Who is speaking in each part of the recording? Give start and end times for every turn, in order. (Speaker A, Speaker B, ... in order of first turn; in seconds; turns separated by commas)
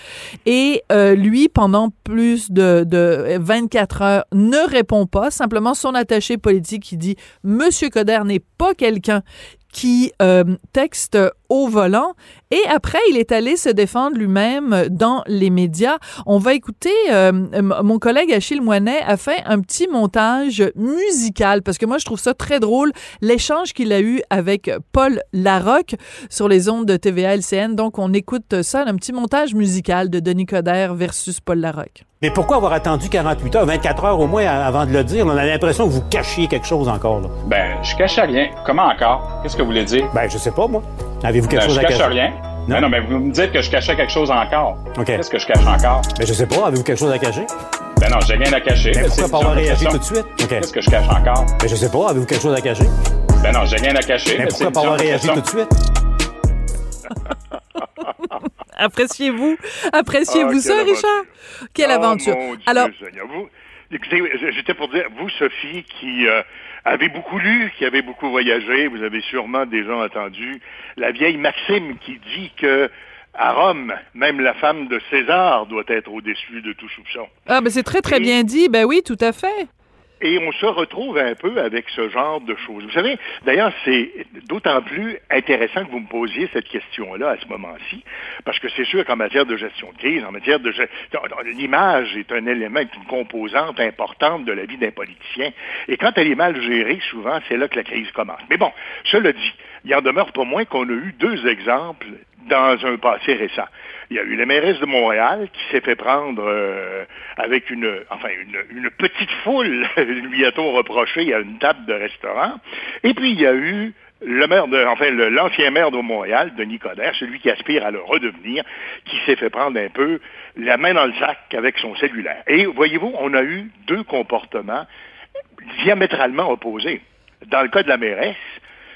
Speaker A: 0.5-32.0, Speaker B: 32.2-37.3, Speaker C: 37.4-40.1, Speaker B: 40.1-42.9, Speaker C: 41.5-46.1, Speaker B: 44.9-45.2, Speaker B: 46.1-47.5, Speaker C: 48.0-51.5, Speaker B: 48.9-50.7, Speaker B: 51.6-52.9, Speaker C: 53.4-55.4, Speaker B: 54.3-55.7, Speaker A: 58.8-62.9, Speaker D: 60.3-77.3, Speaker A: 77.5-79.7, Speaker D: 78.1-78.3, Speaker D: 80.2-124.9, Speaker D: 125.7-128.6